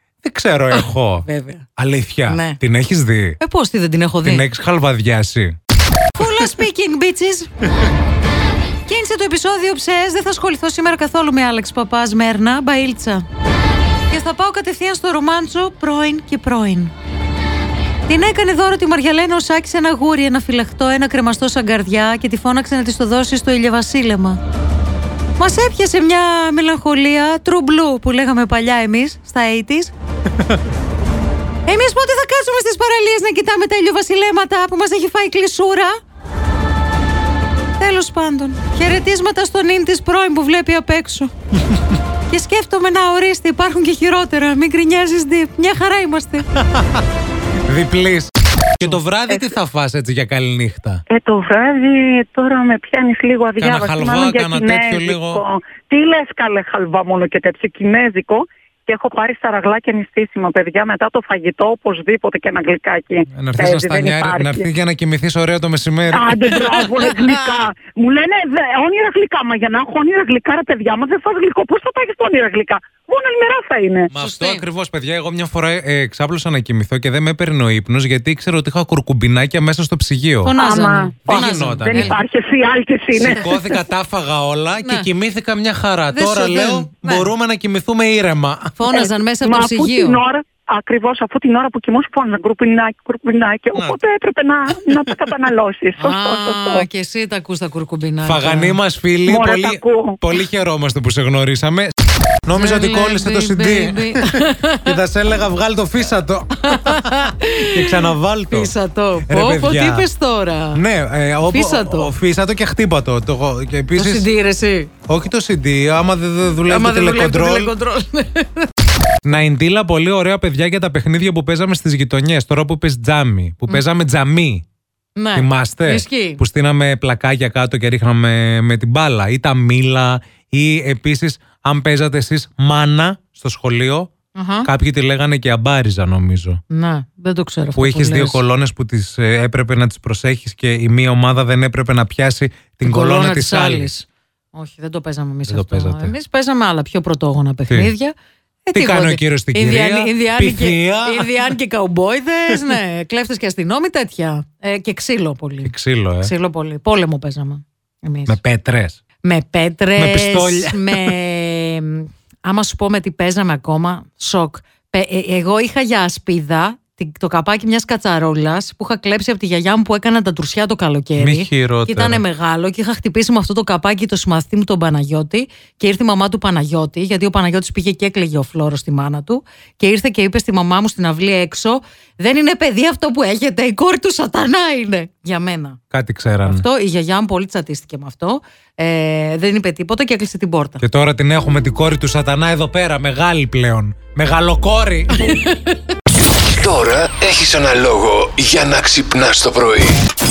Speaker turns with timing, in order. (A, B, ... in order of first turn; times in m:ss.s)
0:00.2-0:03.4 A
0:00.7-0:01.7 B
0:02.3-0:02.6 B
0:03.4-0:04.5 B
0:04.2-0:05.5 A
0:06.2-0:07.5 B
0:08.9-0:13.3 B
0:14.1-0:16.9 B
0:18.1-0:24.4 B
0:25.4-0:29.9 B
0:31.7-0:36.0 B
0:37.8-0:41.3 B
0:42.3-0:46.5 B
0:46.7-0:47.0 A
0:47.7-0:51.0 A
0:51.1-1:04.7 C
0:53.6-0:55.4 A
1:03.3-1:06.6 A
1:06.1-1:14.1 C
1:06.5-1:07.6 B
1:14.1-1:20.5 A
1:14.1-1:14.6 B
1:20.4-1:22.2 B
1:20.5-1:23.8 C
1:21.3-1:22.1 A
1:23.2-1:28.8 A
1:24.8-1:25.1 B
1:26.1-1:27.3 B
1:28.8-1:30.2 B
1:28.9-1:36.9 C
1:34.8-1:35.2 A
1:36.0-1:38.8 B
1:38.2-1:41.9 A
1:39.3-1:40.2 C
1:42.4-1:48.7 A
1:42.5-1:45.0 B
1:46.6-1:50.8 B
1:49.3-1:50.1 A
1:50.7-1:54.3 A
1:51.5-1:52.1 B
1:54.0-1:54.9 B
1:55.1-1:57.7 A
1:56.7-1:58.7 B
1:59.2-2:04.6 A
2:05.2-2:06.4 B
2:05.4-2:14.1 A
2:14.3-2:14.7 B
2:14.6-2:16.6 A
2:16.7-2:18.4 B
2:17.8-2:23.9 A
2:22.8-2:28.2 B
2:25.5-2:26.2 A
2:28.7-2:38.4 B
2:28.7-2:31.5 A
2:35.6-2:36.3 A
2:38.3-2:39.0 A
2:39.2-3:05.8 B
2:40.0-2:41.2 A
2:51.2-2:52.2 A
3:05.9-3:06.6 A
3:06.4-3:10.8 B
3:10.8-3:15.2 A
3:15.2-3:15.9 B
3:16.5-3:20.0 D